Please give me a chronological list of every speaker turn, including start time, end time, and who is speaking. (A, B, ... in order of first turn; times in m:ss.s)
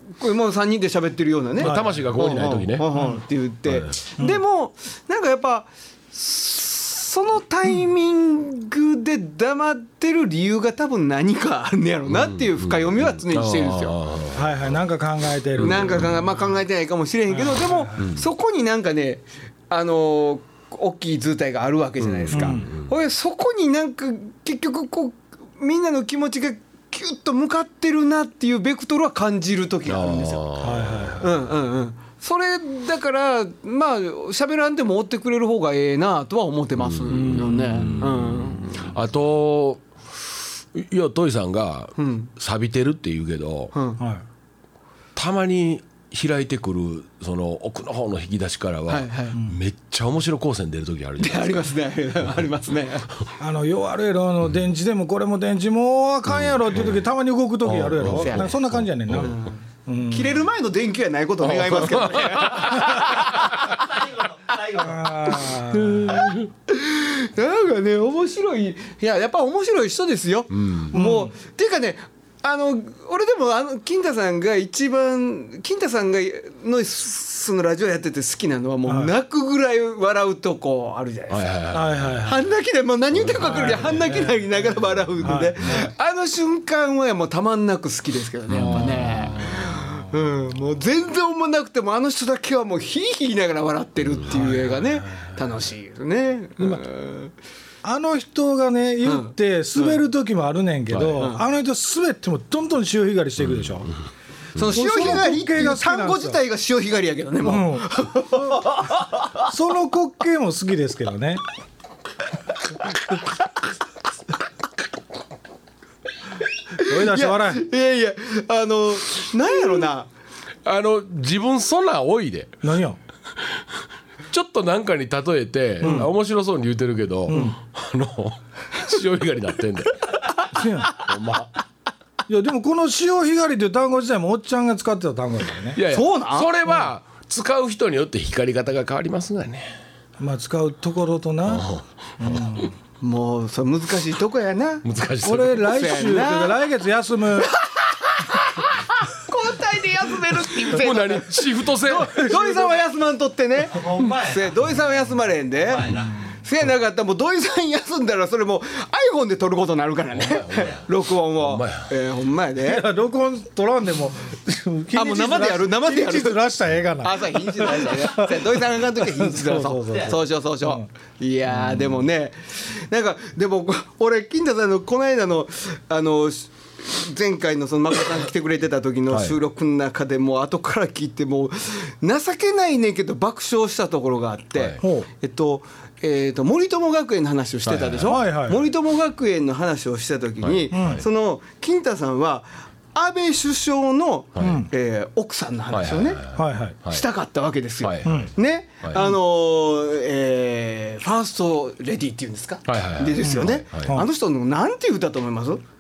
0:00.2-0:14.0 A
0:01.6-0:02.9 B
0:01.6-0:02.0 C
0:02.9-0:03.2 C
0:03.7-0:04.0 B
0:12.1-0:14.8 B
0:14.3-0:16.2 C
0:15.6-0:16.1 B
0:15.6-0:30.4 A
0:17.3-0:18.1 C
0:18.0-0:18.2 B
0:22.0-0:22.9 B
0:22.3-0:22.7 C
0:29.8-0:31.3 B
0:30.6-0:31.3 C
0:31.2-0:38.9 A
0:36.8-0:39.8 B
0:37.1-0:38.0 C
0:40.7-0:43.7 B
0:42.0-0:42.3 A
0:43.7-0:44.0 A
0:45.2-0:51.6 B
0:48.9-0:49.4 A
0:51.2-0:53.1 A
0:53.4-1:00.4 C
0:56.3-0:57.0 B
0:57.6-0:59.4 B
0:58.0-0:58.5 A
0:59.2-1:03.8 A
1:01.4-1:03.6 B
1:03.7-1:05.2 D
1:04.7-1:06.2 C
1:05.7-1:06.5 B
1:06.1-1:21.5 A
1:10.5-1:11.0 B
1:10.9-1:11.3 C
1:18.9-1:19.1 C
1:21.3-1:22.3 B
1:21.7-1:22.4 C
1:22.2-1:37.3 A
1:23.1-1:24.0 B
1:23.4-1:24.3 C
1:25.2-1:25.9 C
1:28.5-1:29.8 B
1:28.5-1:30.1 C
1:34.3-1:35.4 C
1:37.8-1:43.9 C
1:39.0-1:40.0 A
1:40.9-1:41.3 B
1:41.2-1:41.4 A
1:43.4-1:43.8 B
1:44.6-1:49.5 A
1:44.6-1:46.4 C
1:47.4-1:48.0 C
1:49.4-1:51.4 C
1:56.8-2:00.1 A
1:56.8-1:57.6 C
2:00.6-2:02.6 B
2:02.6-2:03.0 C
2:04.3-2:10.2 B
2:05.8-2:06.1 C
2:07.3-2:07.6 C
2:10.5-2:11.0 C
2:10.9-2:11.5 B
2:12.3-2:15.8 C
2:15.7-2:19.8 B
2:15.8-2:16.5 A
2:20.2-2:21.7 C
2:21.4-2:22.7 B
2:22.2-2:22.7 C
2:23.0-2:24.8 A
2:24.8-2:25.9 B
2:25.2-2:27.6 C
2:25.6-2:26.6 A
2:29.1-2:42.8 A
2:30.6-2:32.2 B
2:31.9-2:32.8 C
2:33.7-2:34.6 D
2:35.6-2:36.2 D
2:40.1-2:40.8 B
2:41.4-2:41.9 B
2:42.6-2:50.8 C
2:44.9-2:46.4 A
2:47.0-3:16.2 A
2:59.1-2:59.4 B
3:04.6-3:04.8 B
3:04.8-3:05.1 C
3:07.6-3:08.2 B
3:08.0-3:08.6 C
3:10.4-3:11.0 B
3:10.7-3:11.0 C
3:14.3-3:14.6 B
3:14.4-3:14.7 C
3:15.7-3:17.0 B
3:16.3-3:16.8 C
3:16.9-3:25.6 A
3:17.8-3:18.3 B
3:18.0-3:18.3 C
3:18.8-3:19.1 B
3:22.6-3:24.0 B
3:23.2-3:24.0 C